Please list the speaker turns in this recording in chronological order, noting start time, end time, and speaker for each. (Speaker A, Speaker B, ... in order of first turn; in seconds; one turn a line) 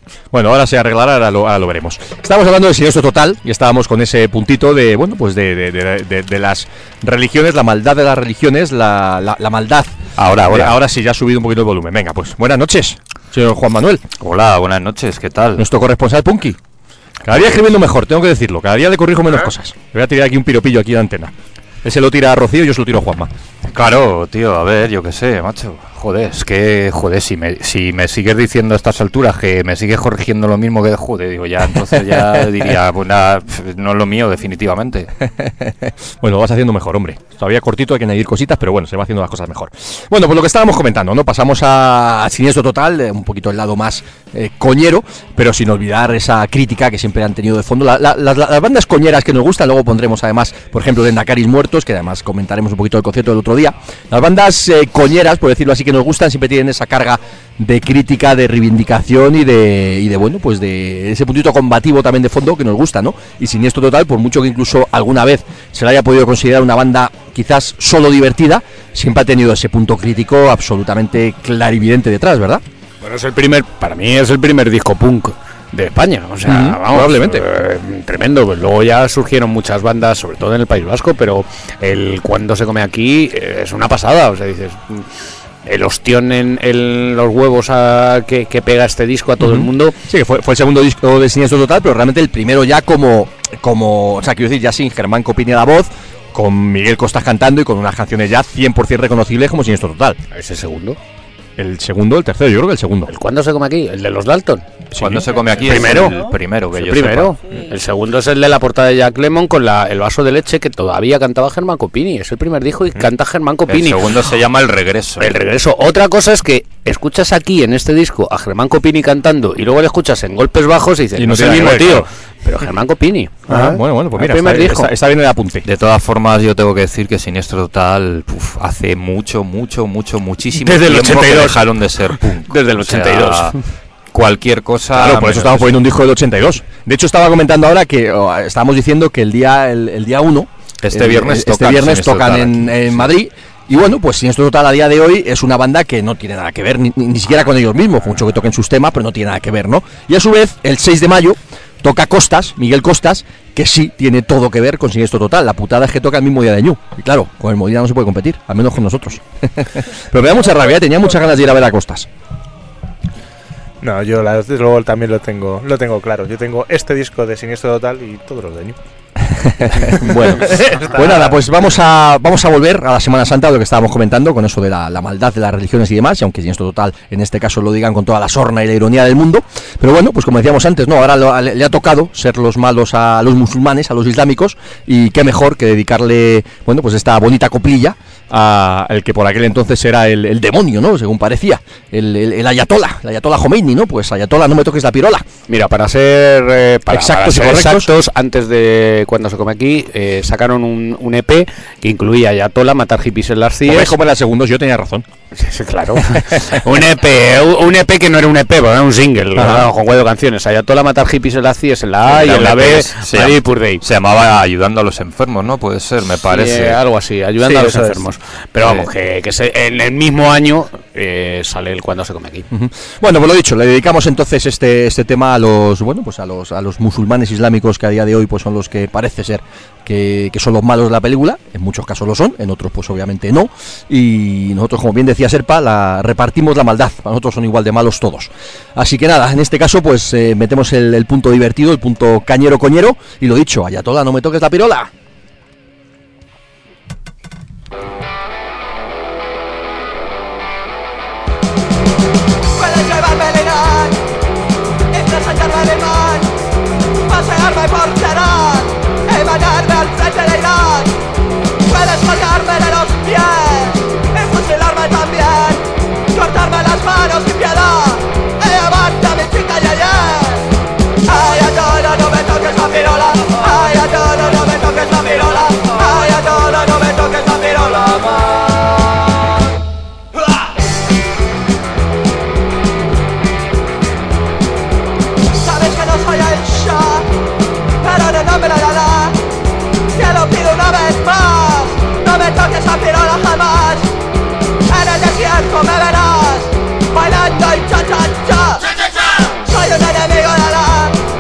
Speaker A: 0.3-14.0
Speaker B: 10.2-10.7
Speaker B: 14.2-15.6
Speaker A: 15.6-16.6
Speaker A: 17.2-23.3
Speaker B: 23.6-35.1
Speaker A: 35.4-72.6
Speaker C: 73.0-85.1
Speaker A: 76.4-77.5
Speaker C: 85.7-90.0
Speaker A: 89.4-100.2
Speaker C: 100.3-101.0
Speaker A: 101.6-103.1
Speaker C: 103.1-104.9
Speaker B: 104.9-107.4
Speaker C: 105.6-106.2
Speaker C: 106.7-114.2
Speaker B: 113.7-115.3
Speaker C: 115.2-124.9
Speaker A: 121.2-122.1
Speaker B: 121.3-122.0
Speaker A: 123.5-125.6
Speaker B: 125.6-133.6
Speaker A: 130.6-131.5
Speaker C: 130.7-131.6
Speaker C: 132.5-133.6
Speaker B: 134.1-135.8
Speaker A: 134.9-162.1
Speaker B: 140.8-143.1
Speaker D: 163.8-168.8
Speaker A: 169.2-195.2
Speaker D: 170.4-171.4
Speaker C: 195.5-203.9
Speaker A: 196.9-197.9
Speaker A: 203.6-205.1
Speaker C: 205.3-213.8
Speaker A: 209.3-209.7
Speaker B: 212.1-216.8
Speaker C: 216.3-222.5
Speaker B: 217.4-218.0
Speaker B: 218.6-218.9
Speaker A: 222.5-244.9
Speaker E: 252.6-253.9
Speaker E: 254.9-256.3
Speaker E: 257.1-260.9
Speaker E: 261.7-270.4
Speaker E: 271.0-279.0
Speaker E: 285.4-287.1
Speaker E: 287.8-289.2
Speaker E: 289.9-293.9
Speaker E: 294.6-298.6
Speaker E: 299.4-300.9